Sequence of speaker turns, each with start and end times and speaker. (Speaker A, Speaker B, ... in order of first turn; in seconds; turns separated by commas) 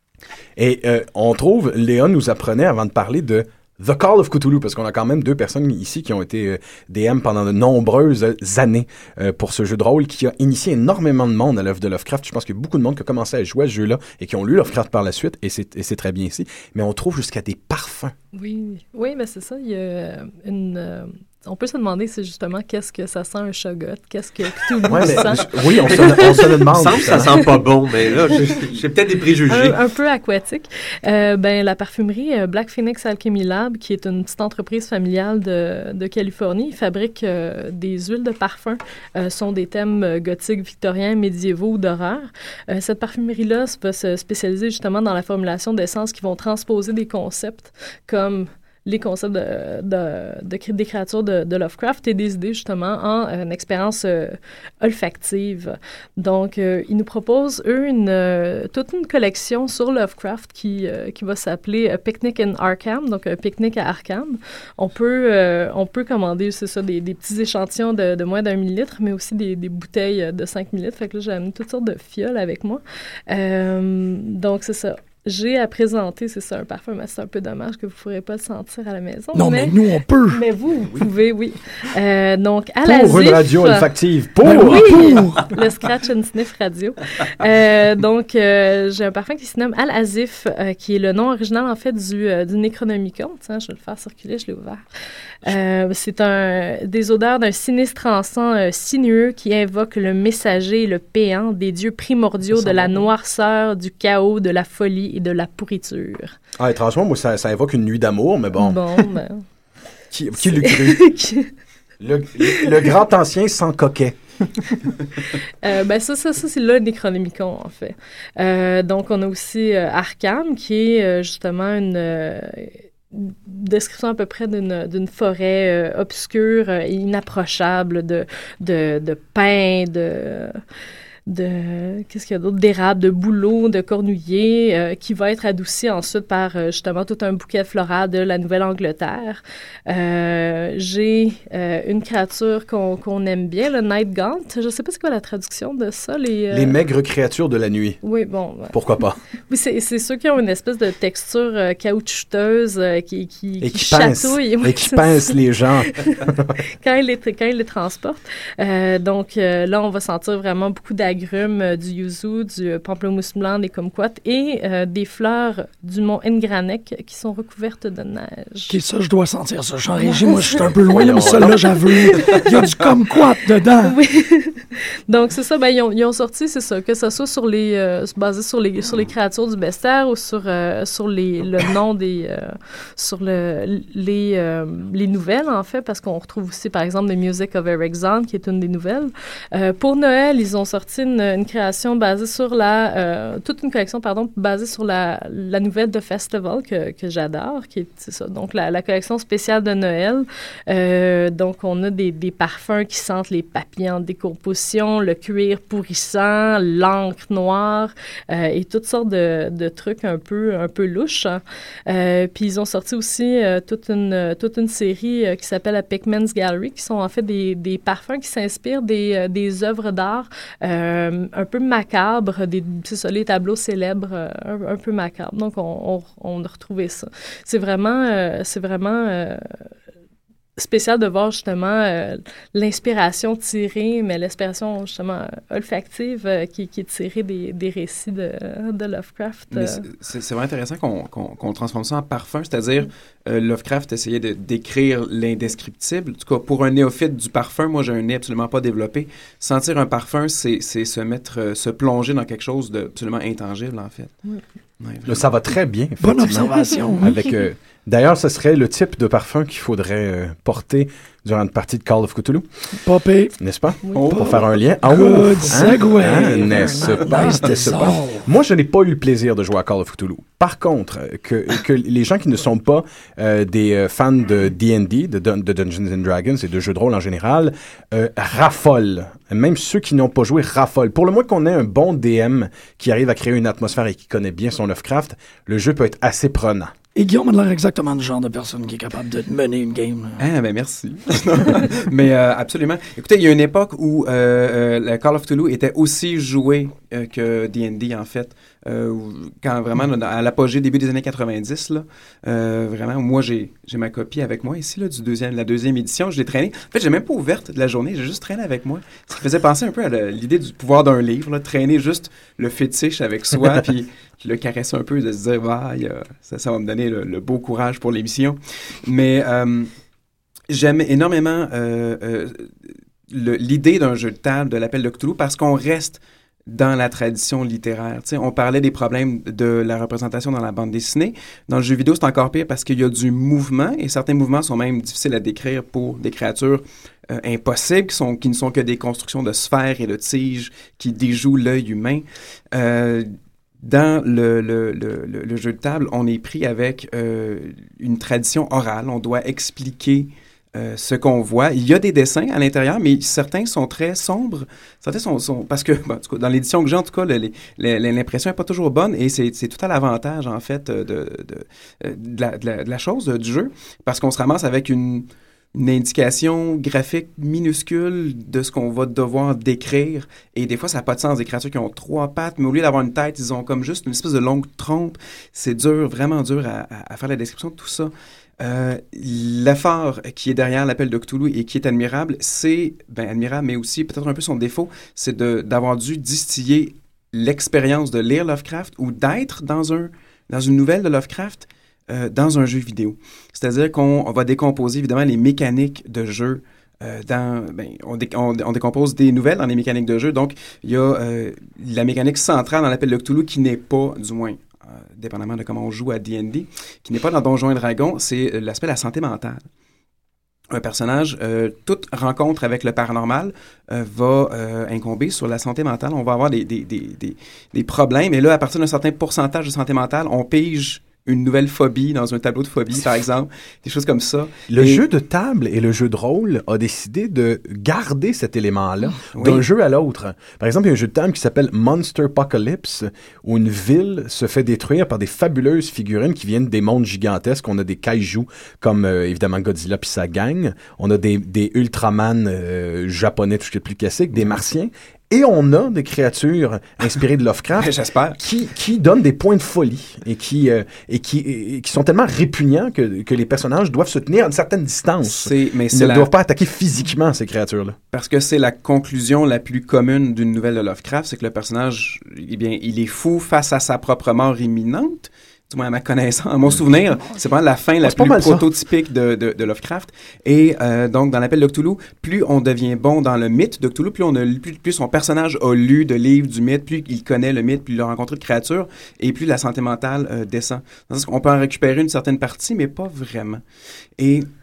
Speaker A: 0.6-18.1, Speaker B: 18.3-26.6, Speaker A: 24.8-27.4, Speaker C: 25.9-29.8, Speaker B: 29.5-83.9, Speaker D: 79.3-80.4, Speaker A: 82.8-85.2, Speaker D: 84.4-85.5, Speaker B: 84.4-94.9, Speaker B: 95.4-106.3, Speaker A: 106.6-108.8, Speaker B: 108.6-109.4, Speaker A: 110.1-111.1, Speaker B: 110.4-111.5, Speaker A: 112.0-114.7, Speaker B: 115.6-130.6, Speaker B: 131.3-146.8, Speaker A: 146.5-148.0, Speaker B: 148.0-148.7, Speaker A: 148.7-149.2, Speaker B: 149.5-156.3, Speaker A: 153.6-156.6, Speaker B: 156.8-168.8, Speaker D: 168.7-174.0, Speaker B: 170.0-172.8, Speaker A: 170.9-171.5, Speaker B: 173.8-229.7, Speaker B: 230.6-239.9, Speaker E: 239.5-254.2, Speaker E: 254.8-255.2, Speaker A: 255.1-262.4, Speaker D: 256.0-257.1, Speaker D: 262.8-263.4, Speaker A: 263.4-286.7, Speaker B: 263.9-264.1, Speaker E: 263.9-264.6, Speaker D: 264.1-268.2, Speaker E: 265.4-267.6, Speaker D: 286.9-290.2, Speaker E: 290.2-319.7, Speaker E: 320.5-409.4, Speaker E: 410.5-424.8, Speaker A: 424.5-457.8, Speaker E: 429.1-429.4, Speaker E: 447.6-448.2, Speaker E: 455.0-456.1, Speaker E: 457.9-483.4, Speaker A: 467.8-468.5, Speaker E: 484.0-484.3